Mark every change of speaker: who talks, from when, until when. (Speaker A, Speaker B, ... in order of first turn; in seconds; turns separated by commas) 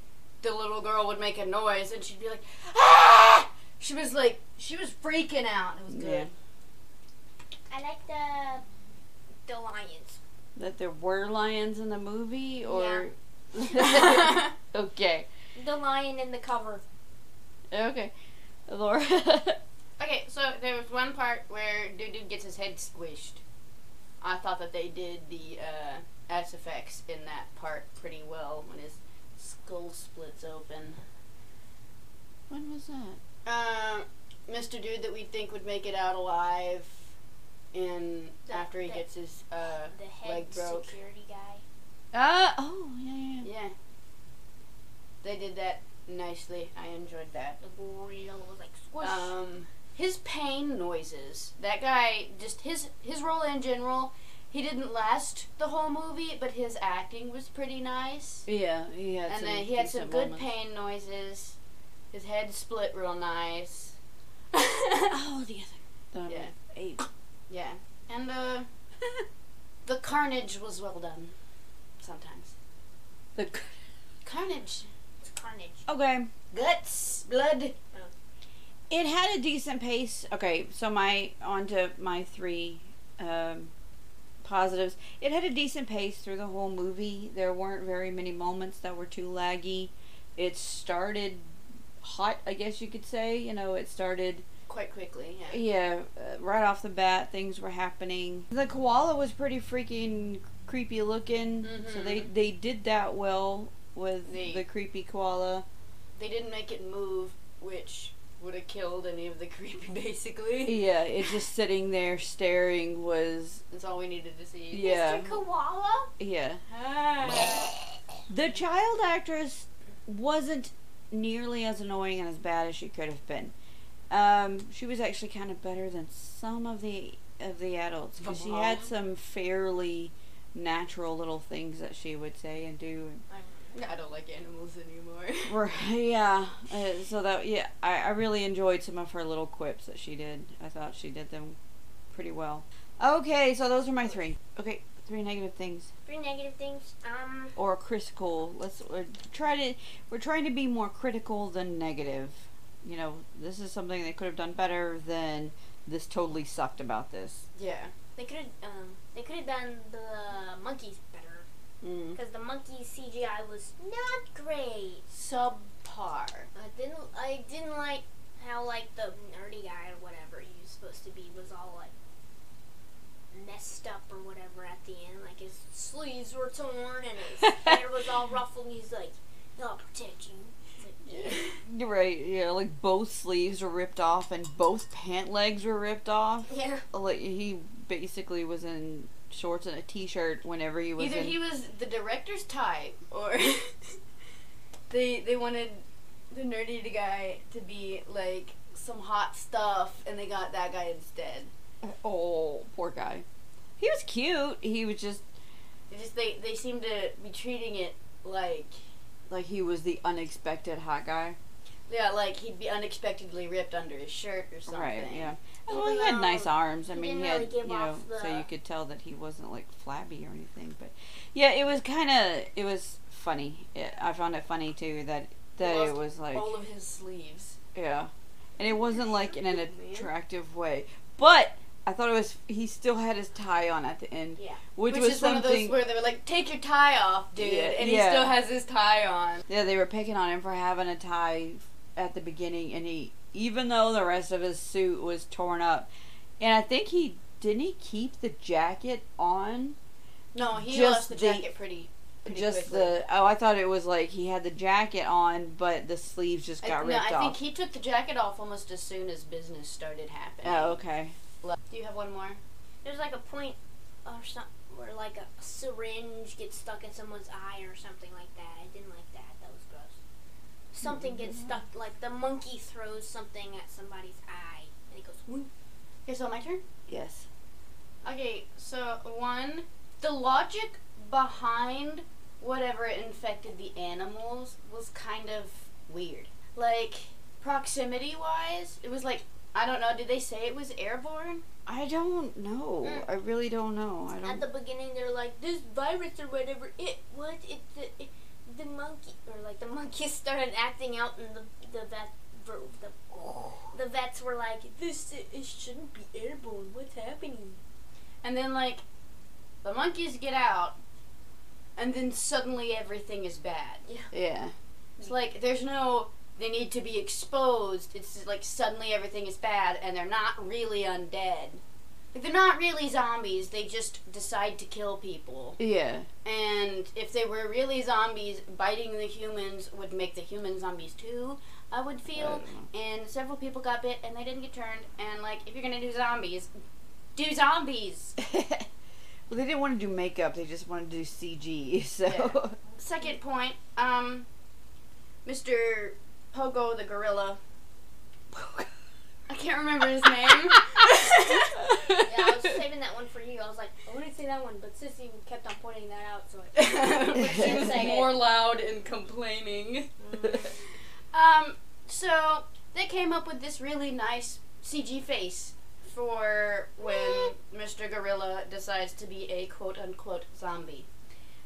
Speaker A: 0.4-6.3, Speaker B: 5.9-6.3, Speaker C: 7.7-8.7, Speaker C: 9.5-10.2, Speaker B: 10.6-15.3, Speaker C: 12.7-13.1, Speaker A: 13.9-14.5, Speaker C: 15.6-16.8, Speaker B: 17.7-18.1, Speaker B: 18.7-19.6, Speaker A: 20.0-23.4, Speaker A: 24.2-31.0, Speaker B: 32.5-33.2, Speaker A: 33.5-37.1, Speaker A: 37.7-41.0, Speaker C: 38.5-39.0, Speaker C: 39.9-41.6, Speaker B: 42.1-43.5, Speaker A: 43.4-43.7, Speaker A: 45.2-47.6, Speaker C: 47.6-49.4, Speaker A: 49.0-58.5, Speaker B: 58.5-60.5, Speaker A: 59.3-61.6, Speaker A: 62.1-64.0, Speaker A: 64.5-65.1, Speaker B: 65.1-67.0, Speaker A: 66.3-66.5, Speaker A: 67.5-68.7, Speaker A: 69.9-71.3, Speaker A: 72.0-72.5, Speaker B: 73.3-73.8, Speaker A: 74.2-74.9, Speaker C: 75.2-75.9, Speaker B: 75.9-76.3, Speaker A: 76.5-77.7, Speaker B: 78.9-83.7, Speaker B: 84.4-94.5, Speaker A: 94.7-95.6, Speaker B: 95.5-105.7, Speaker A: 101.6-102.3, Speaker A: 104.3-104.6, Speaker A: 106.2-110.8, Speaker B: 110.7-113.6, Speaker A: 113.7-115.0, Speaker B: 114.7-115.4, Speaker C: 114.8-116.1, Speaker B: 116.2-116.6, Speaker A: 116.7-117.7, Speaker B: 118.3-123.5, Speaker B: 124.1-133.2, Speaker A: 128.2-128.9, Speaker C: 133.3-133.9, Speaker A: 133.7-135.6, Speaker B: 135.5-141.6, Speaker B: 142.1-145.9, Speaker C: 146.1-147.6, Speaker B: 147.6-157.4, Speaker A: 157.6-157.9, Speaker C: 158.2-161.5, Speaker B: 161.8-162.2, Speaker C: 162.2-165.0, Speaker A: 165.1-166.5, Speaker C: 166.6-171.9, Speaker C: 173.3-181.5, Speaker A: 181.2-181.5, Speaker B: 181.4-191.4, Speaker C: 186.5-186.8, Speaker A: 191.0-194.0, Speaker A: 194.9-201.5, Speaker B: 201.8-203.2, Speaker B: 203.8-205.2, Speaker A: 205.9-208.8, Speaker B: 209.3-211.4, Speaker A: 211.9-215.4, Speaker B: 214.7-226.5, Speaker C: 215.7-218.5, Speaker A: 225.6-227.6, Speaker B: 227.7-235.8, Speaker A: 228.6-230.1, Speaker A: 234.9-239.4, Speaker B: 237.4-238.4, Speaker B: 239.5-245.9, Speaker B: 246.4-249.8, Speaker A: 250.3-253.0, Speaker B: 250.5-251.5, Speaker B: 252.2-257.4, Speaker A: 256.6-260.8, Speaker B: 260.4-261.1, Speaker A: 261.4-262.4, Speaker C: 262.8-270.0, Speaker C: 270.7-275.5, Speaker B: 270.8-271.6, Speaker A: 276.1-276.6, Speaker B: 276.9-277.3, Speaker A: 278.0-291.4, Speaker B: 291.7-294.4, Speaker C: 294.2-307.6, Speaker A: 308.2-308.8, Speaker A: 309.6-310.8, Speaker A: 311.8-313.9, Speaker B: 314.1-314.5, Speaker A: 315.0-321.6, Speaker A: 322.1-325.6, Speaker B: 325.6-326.1, Speaker A: 326.2-336.5, Speaker B: 332.1-332.7, Speaker A: 337.1-338.2, Speaker B: 338.2-338.7, Speaker B: 339.3-342.6, Speaker A: 342.1-344.3, Speaker A: 345.2-347.4, Speaker B: 348.3-348.7, Speaker A: 349.3-351.6, Speaker B: 351.5-352.5, Speaker C: 351.9-358.2, Speaker A: 356.6-370.9, Speaker B: 357.2-357.8, Speaker C: 360.0-360.5, Speaker C: 366.8-367.3